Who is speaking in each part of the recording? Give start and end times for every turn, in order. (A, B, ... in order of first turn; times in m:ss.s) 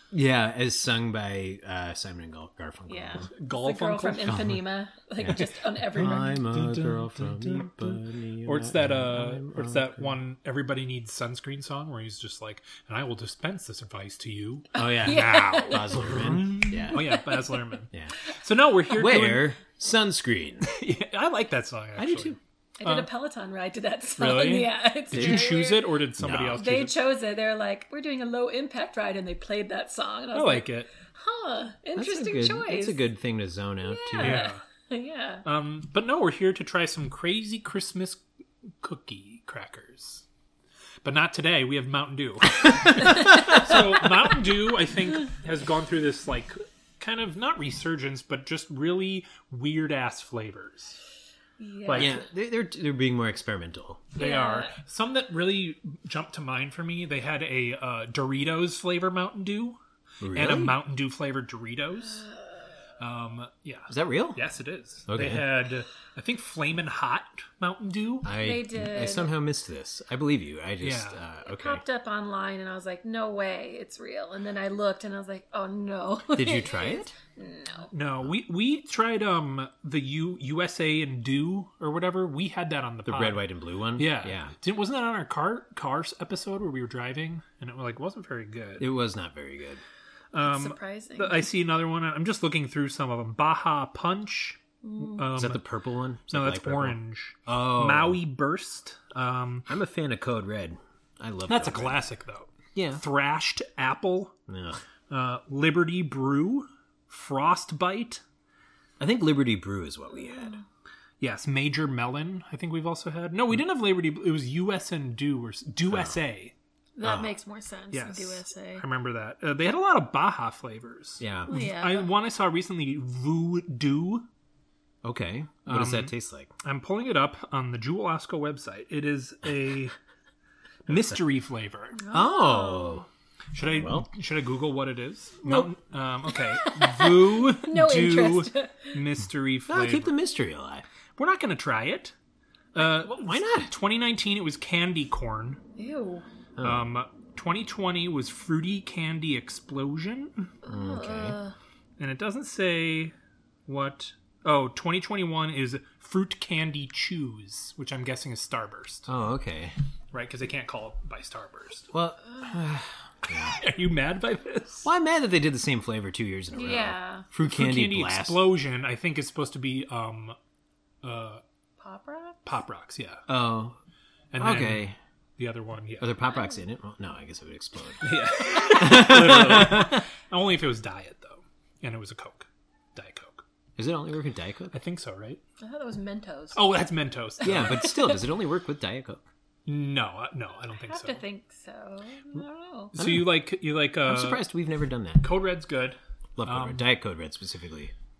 0:00.1-0:03.3 A
0:02.9-0:06.4 B
0:03.3-0:04.4 C
0:04.2-0:04.6 A
0:05.2-0:10.2 A
0:06.0-0:19.5 C
0:14.7-0:16.0 B
0:14.7-0:17.2 A
0:16.9-0:17.6 B
0:18.9-0:20.7 A
0:20.6-0:23.1 C
0:22.0-0:22.4 A
0:22.8-0:26.0 B
0:24.2-0:27.0 C
0:25.1-0:25.6 A
0:26.2-0:26.6 A
0:26.5-0:33.0 B
0:30.3-0:30.9 C
0:32.0-0:34.5 A
0:33.9-0:35.4 B
0:34.2-0:34.6 C
0:35.4-0:38.2 C
0:38.8-0:40.2 C
0:41.0-0:51.0 C
0:42.8-0:44.1 A
0:51.6-0:52.2 B
0:51.8-0:52.2 C
0:51.9-0:54.1 A
0:54.2-0:54.7 B
0:54.2-0:59.8 C
1:00.2-1:00.8 A
1:00.3-1:02.3 C
1:03.0-1:08.3 C
1:03.9-1:04.4 A
1:05.1-1:05.4 A
1:08.2-1:11.8 A
1:08.3-1:09.3 B
1:10.8-1:11.2 C
1:11.4-1:17.9 B
1:16.3-1:17.1 A
1:17.9-1:23.4 C
1:23.0-1:24.5 A
1:24.0-1:28.9 C
1:28.8-1:29.8 A
1:30.3-1:35.6 C
1:30.4-1:31.4 B
1:34.8-1:35.3 B
1:35.3-1:38.2 A
1:36.3-1:39.7 C
1:39.7-1:42.0 A
1:41.5-1:44.3 C
1:42.7-1:43.0 A
1:44.5-1:44.8 A
1:45.1-1:48.2 C
1:49.0-1:50.6 A
1:50.2-1:50.6 B
1:51.2-1:56.5 C
1:55.9-1:56.2 A
1:57.0-1:58.8 B
1:57.0-1:57.4 A
1:57.9-2:04.3 C
2:01.2-2:01.5 A
2:01.5-2:02.1 B
2:05.0-2:06.5 A
2:05.6-2:09.9 C
2:10.9-2:12.0 C
2:12.0-2:13.0 B
2:12.1-2:13.0 A
2:13.5-2:20.1 C
2:13.6-2:14.1 A
2:15.4-2:15.7 A
2:16.4-2:19.0 B
2:19.7-2:20.8 A
2:21.2-2:22.1 C
2:22.7-2:25.6 C
2:22.8-2:23.7 A
2:25.8-2:26.2 B
2:26.6-2:26.8 A
2:26.6-2:30.5 C
2:30.6-2:31.5 B
2:30.6-2:31.4 A
2:32.0-2:33.1 C
2:33.6-2:39.1 C
2:39.1-2:39.7 A
2:40.1-2:41.9 C
2:41.9-2:43.6 A
2:43.4-2:44.9 C
2:44.8-2:48.5 A
2:46.5-2:47.2 B
2:47.4-2:50.4 C
2:51.0-2:51.4 C
2:51.8-2:52.4 B
2:52.4-2:53.2 C
2:53.3-2:53.8 A
2:54.3-2:54.9 C
2:54.4-2:55.0 A
2:55.4-2:56.1 C
2:56.0-3:00.0 A
2:58.0-3:03.4 C
3:03.8-3:04.7 A
3:04.7-3:05.4 C
3:05.6-3:06.6 B
3:06.5-3:07.9 C
3:07.4-3:09.2 A
3:07.9-3:08.2 B
3:09.6-3:11.2 C
3:10.7-3:12.9 B
3:12.9-3:14.4 C
3:13.0-3:13.4 A
3:14.0-3:15.3 A
3:15.2-3:16.9 C
3:16.4-3:17.9 A